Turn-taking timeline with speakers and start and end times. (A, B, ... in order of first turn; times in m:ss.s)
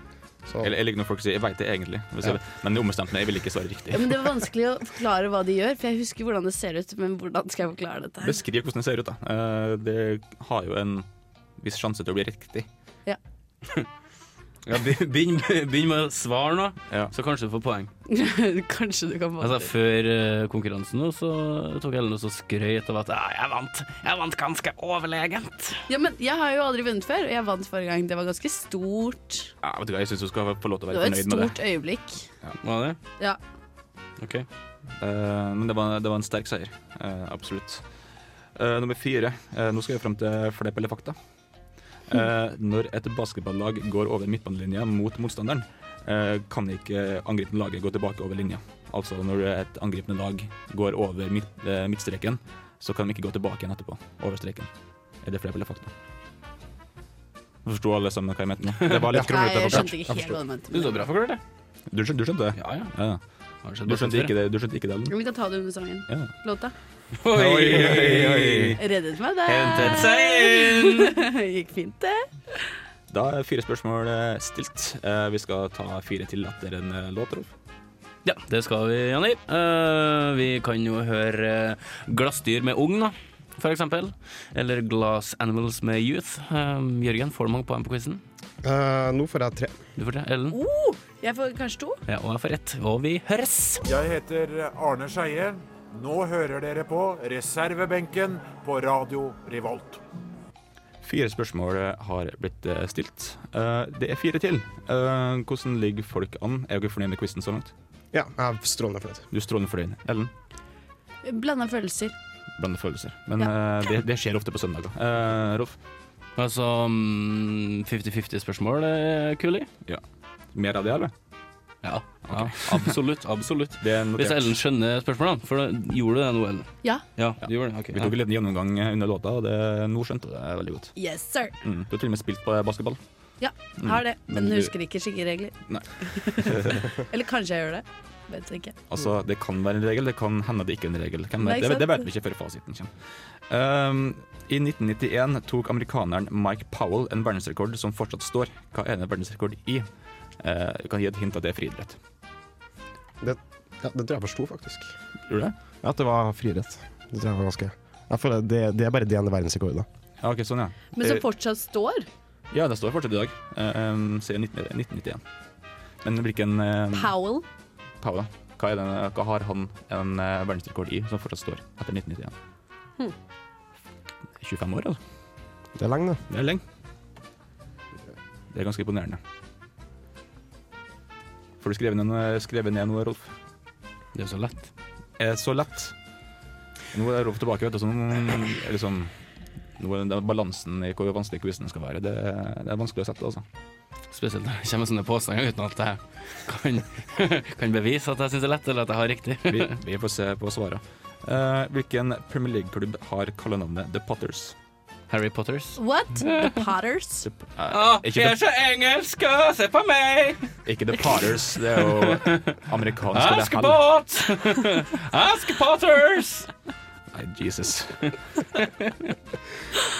0:00.6-0:04.3 A
0:03.9-0:08.4 B
0:08.2-0:11.0 A
0:11.6-0:12.7 A
0:14.6-0:17.9 C
0:18.1-0:19.7 B
0:19.4-0:25.8 C
0:25.9-0:29.5 B
0:29.6-0:31.6 A
0:30.9-0:32.2 B
0:32.6-0:33.0 C
0:34.2-0:34.4 C
0:35.0-0:37.8 A
0:38.6-0:41.2 A
0:42.1-0:54.7 A
0:55.2-0:55.9 A
0:57.6-0:59.9 A
0:59.1-1:00.4 D
0:59.1-1:01.0 B
1:00.7-1:01.4 C
1:01.9-1:03.2 A
1:02.5-1:02.9 C
1:03.6-1:04.3 C
1:03.8-1:05.1 A
1:05.1-1:06.7 B
1:07.1-1:08.8 C
1:07.3-1:08.8 A
1:08.8-1:12.7 B
1:09.5-1:11.2 C
1:09.5-1:10.1 A
1:13.1-1:17.5 A
1:18.2-1:28.2 C
1:28.6-1:29.7 D
1:30.0-1:30.6 C
1:30.5-1:32.0 B
1:32.1-1:33.8 C
1:33.8-1:40.0 E
1:41.0-1:47.7 A
1:48.1-1:49.2 D
1:49.3-1:50.3 A
1:51.2-1:52.1 B
1:52.6-1:55.8 A
1:56.4-1:59.7 C
2:00.5-2:01.1 A
2:01.8-2:08.1 C
2:02.3-2:02.9 A
2:03.8-2:04.5 A
2:07.9-2:10.9 A
2:11.0-2:11.5 B
2:11.6-2:13.0 A
2:13.4-2:18.8 B
2:13.8-2:14.7 A
2:15.7-2:16.9 A
2:18.9-2:22.9 A
2:21.4-2:22.0 B
2:23.5-2:29.9 A
2:30.4-2:32.0 A
2:33.2-2:34.9 D
2:35.3-2:35.5 A
2:35.8-2:39.9 D
2:40.2-2:41.2 A
2:41.0-2:42.1 B
2:42.5-2:45.2 A
2:46.0-2:47.1 A
2:46.9-2:47.4 B
2:48.0-2:52.3 A
2:54.4-2:55.0 A
2:55.8-2:56.2 D
2:56.3-2:56.6 A
2:58.5-2:59.2 A
3:01.6-3:03.3 A
3:04.1-3:04.7 C
3:05.2-3:05.9 A
3:06.9-3:09.1 A
3:09.8-3:13.4 A
3:14.1-3:19.7 C
3:19.5-3:24.5 A
3:25.1-3:25.8 C
3:25.8-3:27.3 B
3:27.2-3:28.4 A
3:27.7-3:30.5 C
3:30.6-3:33.8 A
3:31.8-3:32.6 C
3:33.1-3:36.5 C
3:37.1-3:38.0 A
3:38.5-3:39.1 C